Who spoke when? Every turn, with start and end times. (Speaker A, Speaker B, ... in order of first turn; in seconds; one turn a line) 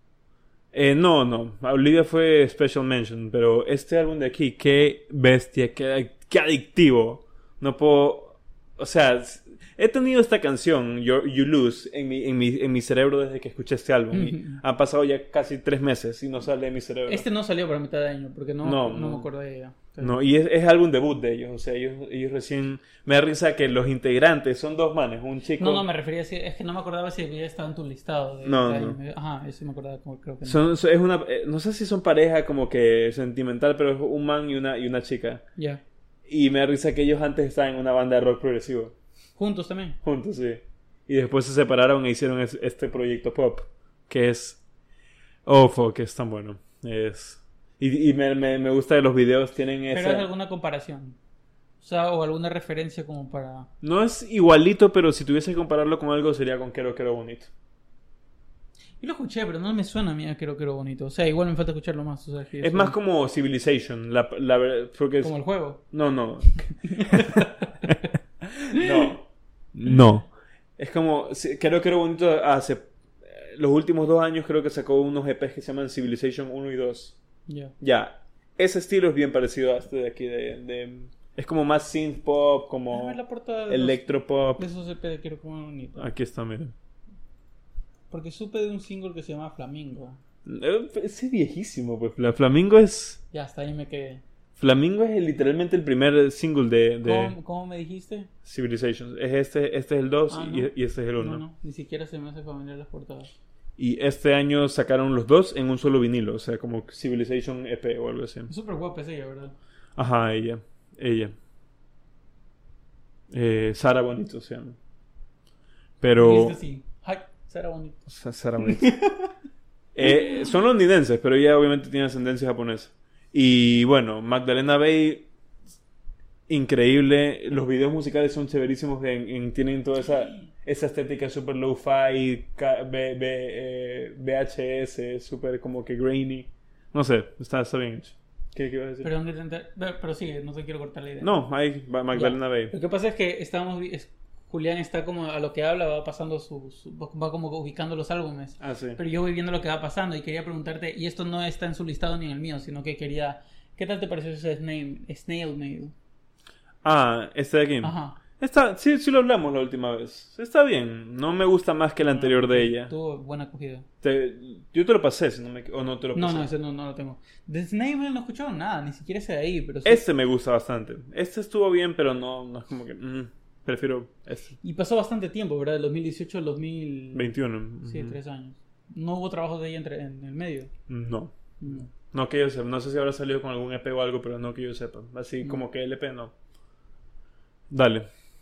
Speaker A: 0.7-17.2
Speaker B: 14.1-14.6
Speaker B: 17.1-20.2
Speaker A: 18.6-19.3
Speaker A: 20.0-25.8
Speaker B: 25.6-30.6
Speaker A: 28.4-29.0
Speaker A: 30.4-35.5
Speaker A: 36.3-39.0
Speaker B: 39.4-40.0
Speaker A: 40.0-44.6
Speaker A: 45.5-50.3
Speaker B: 49.9-51.2
Speaker B: 51.8-53.7
Speaker A: 53.8-57.5
Speaker B: 59.0-63.0
Speaker A: 62.6-67.9
Speaker B: 65.2-65.8
Speaker B: 66.8-68.1
Speaker A: 68.5-77.2
Speaker B: 68.7-69.1
Speaker B: 77.5-77.7
Speaker A: 77.8-83.2
Speaker B: 82.9-86.1
Speaker A: 83.7-84.6
Speaker A: 86.0-86.7
Speaker B: 88.1-90.2
Speaker A: 90.5-93.2
Speaker B: 93.3-94.2
Speaker A: 94.6-97.3
Speaker B: 97.0-98.3
Speaker A: 98.4-101.4
Speaker B: 100.3-103.3
Speaker A: 103.8-108.5
Speaker B: 108.5-109.5
Speaker A: 110.0-111.3
Speaker A: 113.3-114.8
Speaker A: 116.0-116.6
Speaker B: 116.1-118.1
Speaker A: 118.1-119.0
Speaker B: 118.6-119.3
Speaker A: 120.0-125.3
Speaker A: 126.5-139.1
Speaker B: 139.0-141.3
Speaker A: 141.2-142.7
Speaker B: 142.1-155.9
Speaker A: 148.6-149.0
Speaker A: 156.8-162.9
Speaker B: 157.8-158.2
Speaker B: 162.1-163.9
Speaker A: 164.0-166.5
Speaker B: 166.2-170.0
Speaker A: 169.8-174.6
Speaker B: 174.6-180.7
Speaker A: 177.1-178.2
Speaker A: 180.9-186.3
Speaker B: 181.6-181.9
Speaker A: 187.7-188.1